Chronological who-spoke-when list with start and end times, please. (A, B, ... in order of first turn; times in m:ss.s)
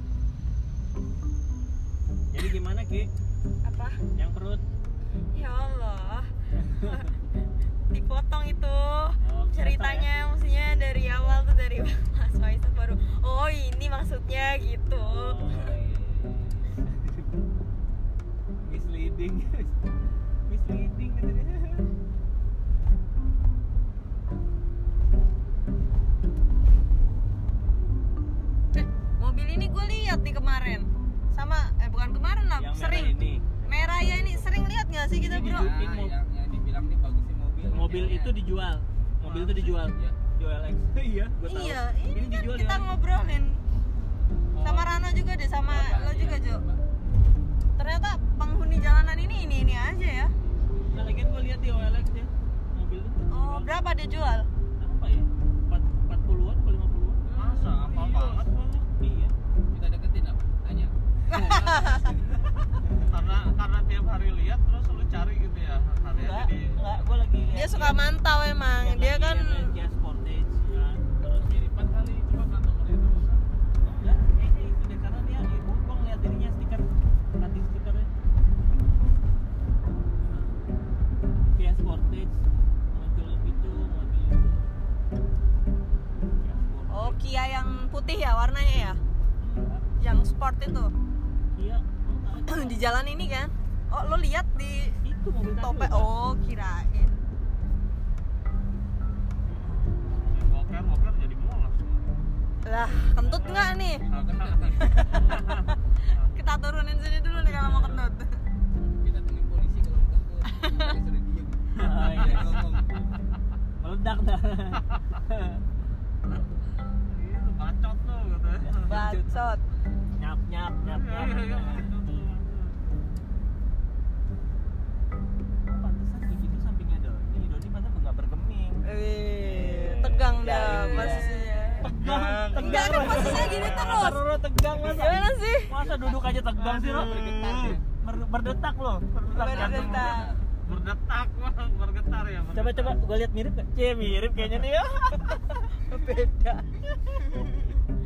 0:02.3-0:03.1 A
0:03.6-0:04.0 B
0:04.1-0:04.6 A
0:05.3-0:07.1 B
0:07.9-0:15.4 B
0:09.2-0:10.1 A
0:15.0-0:17.3 A
0:15.5-0:16.6 C
0:18.6-0:19.7 A
0:20.4-0:21.9 A
0:28.8-0:35.8 B
0:32.6-0:34.5 A
0:33.6-0:34.4 C
0:35.2-0:36.2 A
0:35.2-0:38.4 C
0:37.7-0:42.9 A
0:39.3-0:40.2 C
0:41.4-0:43.6 B
0:44.6-0:44.9 D
0:44.6-0:46.6 B
0:45.6-0:46.8 C
0:47.8-0:50.3 B
0:50.9-0:53.8 A
0:53.3-0:54.5 B
0:54.8-0:57.2 A
0:57.2-0:58.5 E
0:57.4-0:58.9 D
0:59.0-0:59.3 A
0:59.7-1:02.4 C
1:01.3-1:02.1 B
1:03.1-1:06.9 D
1:06.1-1:08.0 A
1:07.5-1:09.7 B
1:08.8-1:11.7 A
1:11.3-1:13.5 E
1:13.8-1:16.9 A
1:17.4-1:18.1 A
1:20.2-1:20.6 A
1:21.5-1:24.7 A
1:26.1-1:27.2 A
1:26.9-1:29.0 B
1:29.4-1:29.9 A
1:30.0-1:30.9 B
1:31.5-1:32.9 A
1:32.5-1:35.0 B
1:35.0-1:36.1 A
1:35.6-1:37.2 B
1:39.5-1:42.1 D
1:42.6-1:44.0 B
1:43.1-1:46.3 D
1:44.0-1:45.4 C
1:44.8-1:45.7 B
1:45.3-1:45.7 A
1:46.3-1:48.4 B
1:47.5-1:48.0 A
1:48.8-1:53.1 C
1:50.5-1:50.9 B
1:51.8-1:53.0 A
1:52.2-1:52.6 D
1:53.8-1:55.6 A
1:57.1-1:58.9 D
1:58.6-1:59.4 A
1:58.8-1:59.6 B
2:00.1-2:01.9 A
2:00.8-2:02.9 D
2:05.6-2:08.8 A
2:08.8-2:11.8 B
2:09.4-2:20.2 A
2:10.9-2:11.8 C
2:11.8-2:14.1 D
2:12.6-2:14.2 B
2:12.9-2:13.5 C
2:14.8-2:15.8 B
2:15.8-2:17.8 C
2:19.3-2:20.3 B
2:19.4-2:23.0 D
2:19.8-2:20.4 C
2:22.5-2:25.3 A
2:25.8-2:27.6 B